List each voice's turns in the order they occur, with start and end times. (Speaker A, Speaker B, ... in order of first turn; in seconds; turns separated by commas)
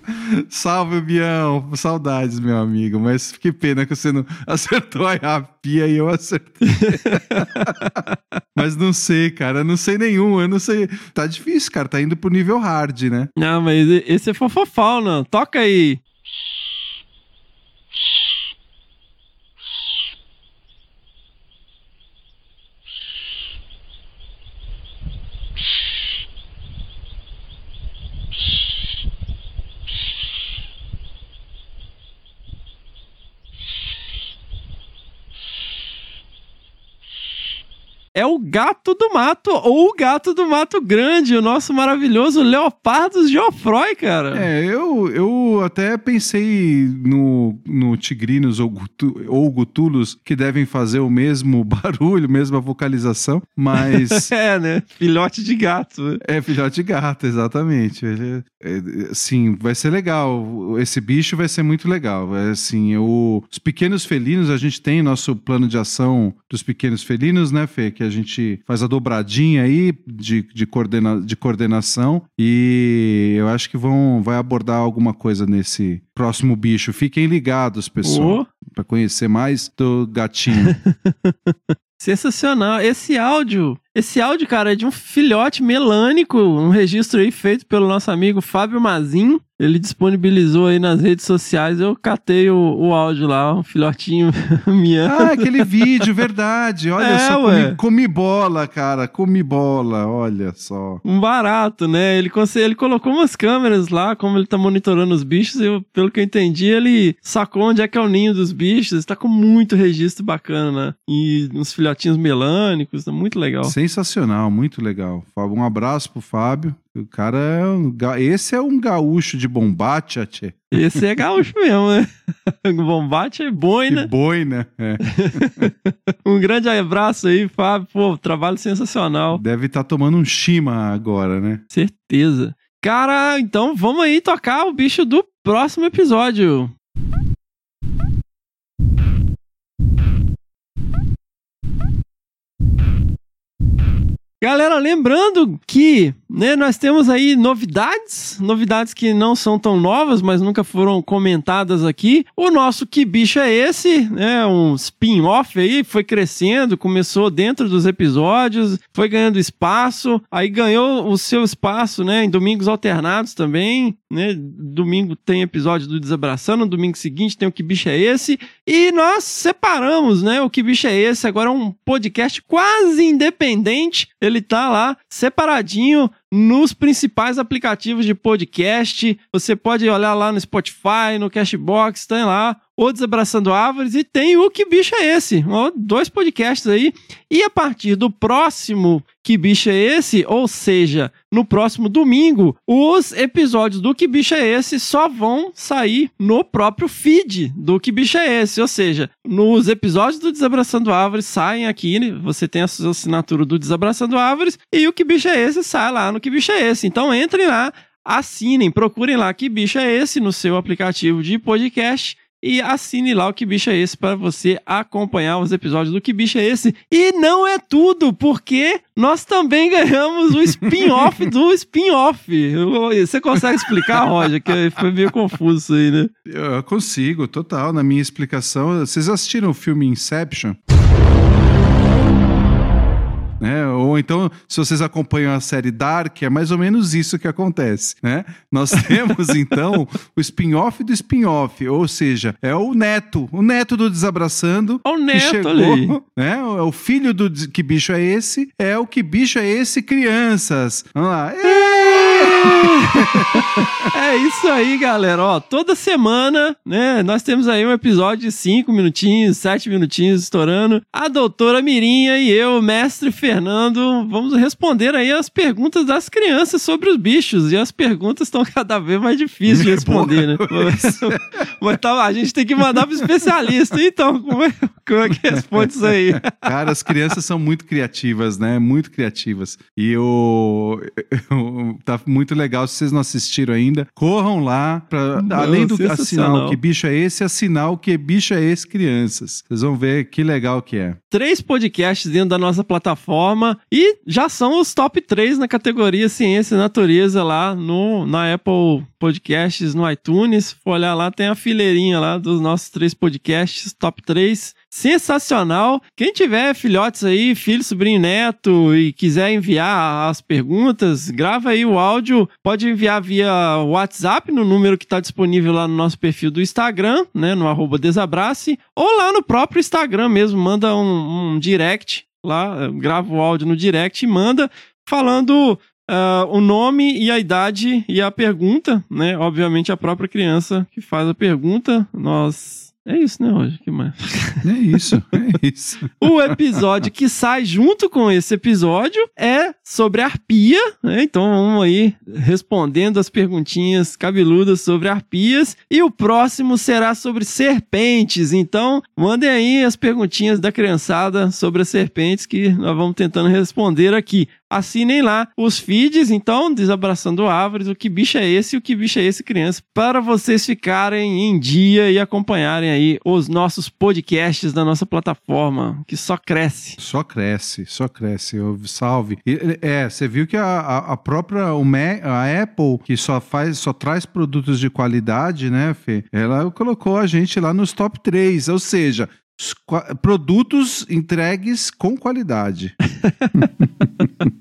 Speaker A: 0.2-8.0, Speaker B: 6.7-7.7, Speaker A: 8.6-13.3, Speaker B: 13.4-16.0, Speaker B: 38.1-44.5, Speaker A: 44.3-54.3, Speaker B: 53.8-56.2, Speaker A: 56.2-80.8, Speaker B: 78.0-78.5, Speaker B: 80.6-96.0, Speaker A: 95.1-101.0, Speaker B: 97.0-97.8, Speaker B: 101.0-113.7, Speaker A: 113.6-121.0, Speaker B: 120.7-124.1, Speaker A: 123.9-125.7, Speaker B: 125.1-129.4, Speaker A: 129.3-131.6, Speaker B: 131.7-136.7, Speaker B: 144.4-226.1, Speaker A: 223.7-224.0, Speaker A: 226.3-230.6, Speaker A: 233.4-253.8, Speaker B: 244.8-246.0, Speaker B: 251.5-276.3, Speaker A: 269.5-271.2, Speaker A: 275.3-291.0, Speaker B: 285.1-286.6, Speaker B: 291.1-334.4, Speaker A: 334.4-336.1, Speaker B: 336.0-366.8, Speaker A: 366.8-382.8, Speaker B: 383.0-383.5, Speaker A: 383.4-383.6